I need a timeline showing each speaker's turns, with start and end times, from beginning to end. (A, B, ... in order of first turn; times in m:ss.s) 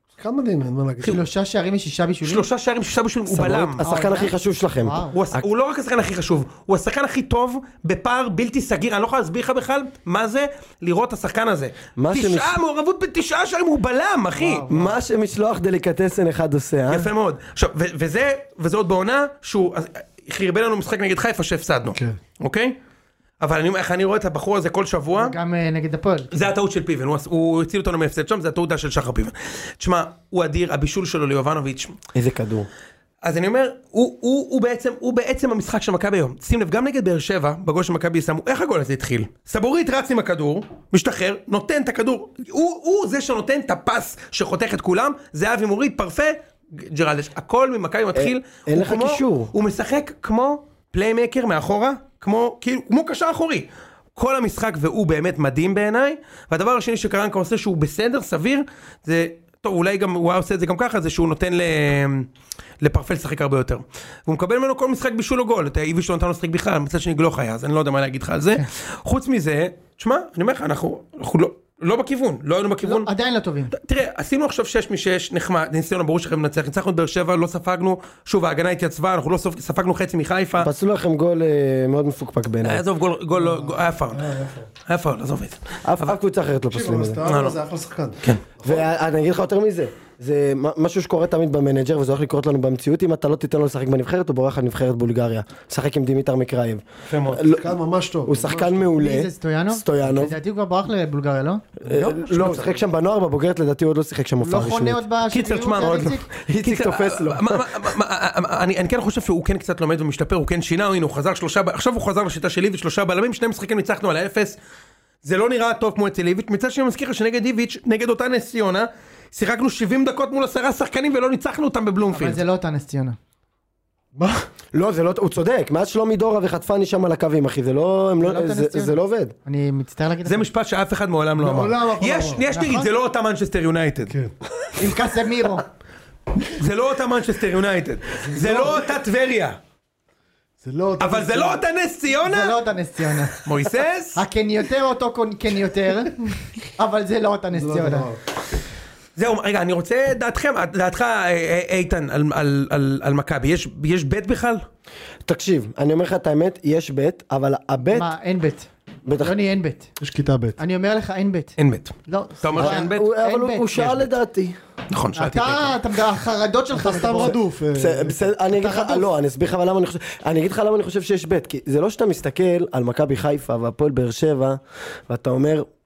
0:00.2-0:01.2 A
0:01.0-0:02.4 B
0:02.2-0:03.8 C
0:03.3-0:05.4 D
0:03.8-0:05.2 B
0:05.1-0:14.7 C
0:12.0-0:12.6 D
0:14.3-0:14.9 B
0:14.7-0:17.1 D
0:16.9-0:22.8 C
0:23.4-0:25.3 C
0:25.1-0:26.5 B
0:26.3-0:32.0 C
0:32.1-0:32.7 D
0:33.2-1:02.3 C
0:48.1-0:49.5 D
1:02.8-1:13.1 C
1:12.8-1:13.7 B
1:13.7-1:20.7 C
1:20.6-1:22.8 D
1:22.6-1:24.2 C
1:23.3-1:24.7 A
1:24.9-1:26.2 C
1:25.8-1:27.2 D
1:26.7-1:28.9 A
1:27.2-1:27.6 C
1:28.6-1:37.7 D
1:37.1-1:37.4 C
1:37.5-1:38.9 A
1:38.2-1:40.4 D
1:39.0-1:41.6 B
1:41.8-1:45.0 D
1:41.8-1:42.8 A
1:44.4-1:46.3 B
1:45.3-1:54.6 C
1:45.8-1:47.9 D
1:55.2-2:02.4 C
2:02.1-2:03.2 B
2:04.1-2:04.4 A
2:04.7-2:09.3 D
2:08.2-2:10.5 B
2:10.2-2:14.1 C
2:11.4-2:12.4 A
2:12.5-2:12.9 B
2:14.1-2:14.3 A
2:14.8-2:15.6 B
2:16.4-2:19.6 C
2:18.2-2:18.9 A
2:20.6-2:21.6 A
2:21.0-2:22.6 C
2:22.2-2:23.5 B
2:23.3-2:24.2 C
2:24.1-2:28.1 B
2:27.5-2:28.2 A
2:29.2-2:34.6 C
2:35.2-2:38.1 D
2:37.9-2:38.7 B
2:39.0-2:39.4 D
2:39.2-2:39.9 B
2:40.0-2:40.6 A
2:40.6-2:41.6 B
2:41.6-2:43.0 C
2:42.1-2:44.0 B
2:42.6-2:44.6 D
2:44.9-2:45.7 C
2:45.2-2:47.4 B
2:46.7-2:48.3 A
2:47.7-2:55.7 D
2:48.5-2:49.1 B